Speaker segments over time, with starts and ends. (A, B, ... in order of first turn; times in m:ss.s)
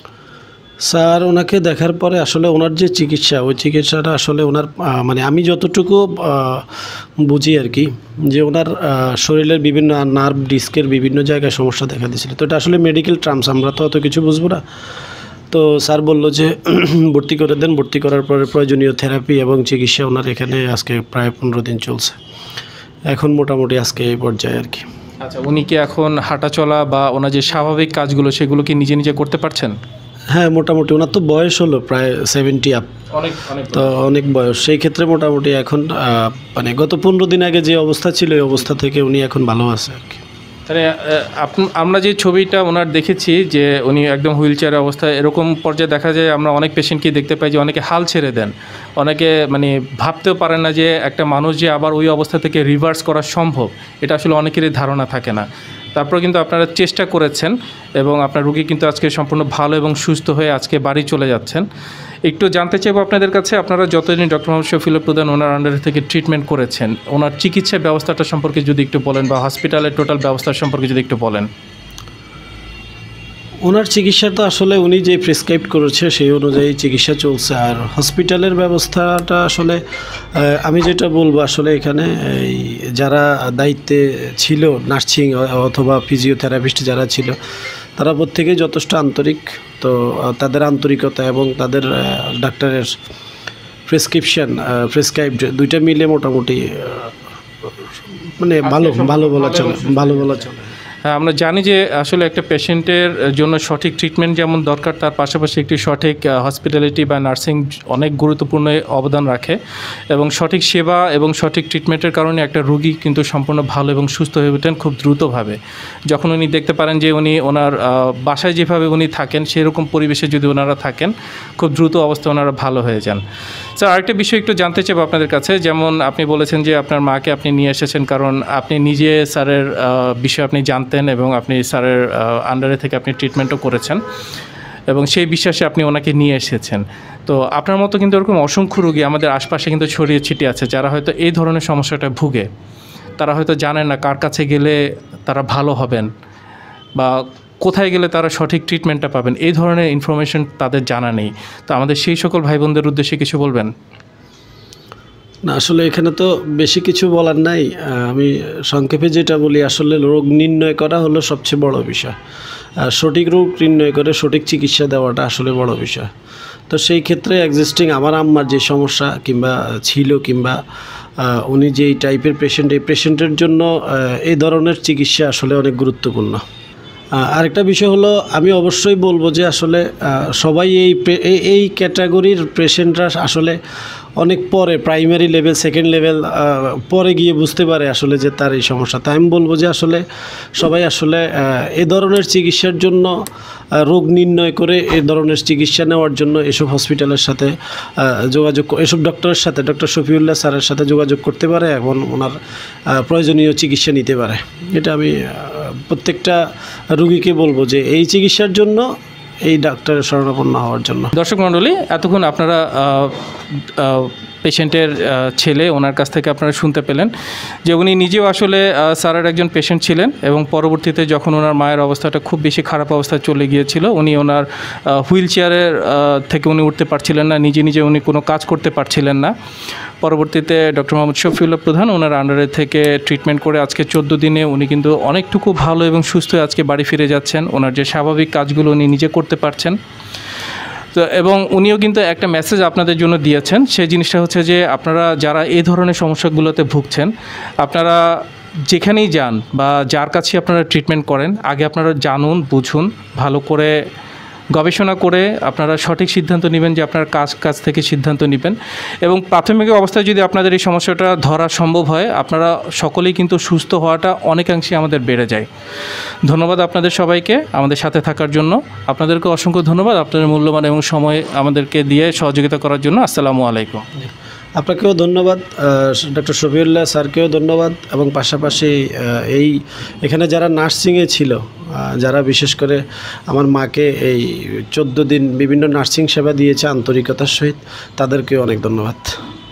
0:00.8-0:06.7 A
0:07.2-0:14.6 A
0:15.5-0:22.2 A
0:23.1-0:24.8 A
0:25.2-0:29.7 B
0:30.3-0:32.9 A
0:33.1-0:33.9 B
0:33.7-0:40.2 A
0:40.7-1:01.6 B
1:02.2-1:11.5 B
1:13.6-1:19.8 A
1:20.3-1:27.4 A
1:28.0-1:32.9 A
1:33.9-1:37.1 A
1:38.4-1:40.7 A
1:38.6-1:40.4 B
1:41.0-1:49.6 B
1:50.1-1:55.6 B
1:56.1-2:03.2 B
2:03.8-2:14.0 B
2:14.9-2:22.5 B
2:23.2-2:26.1 B
2:27.0-2:33.7 B
2:35.5-2:42.1 A
2:42.8-2:46.1 A
2:46.7-2:50.6 A
2:51.2-2:56.4 A
2:57.2-3:03.6 A
3:04.2-3:10.0 A
3:10.5-3:13.1 A
3:13.8-3:22.3 A
3:22.9-3:28.9 A
3:29.4-3:31.1 A
3:31.1-3:37.1 B
3:37.6-3:49.3 B
3:50.0-3:59.8 B
4:00.9-4:07.1 B
4:07.6-4:08.0 B
4:08.7-4:13.8 B
4:14.5-4:25.5 B
4:26.2-4:33.8 B
4:34.0-4:49.2 A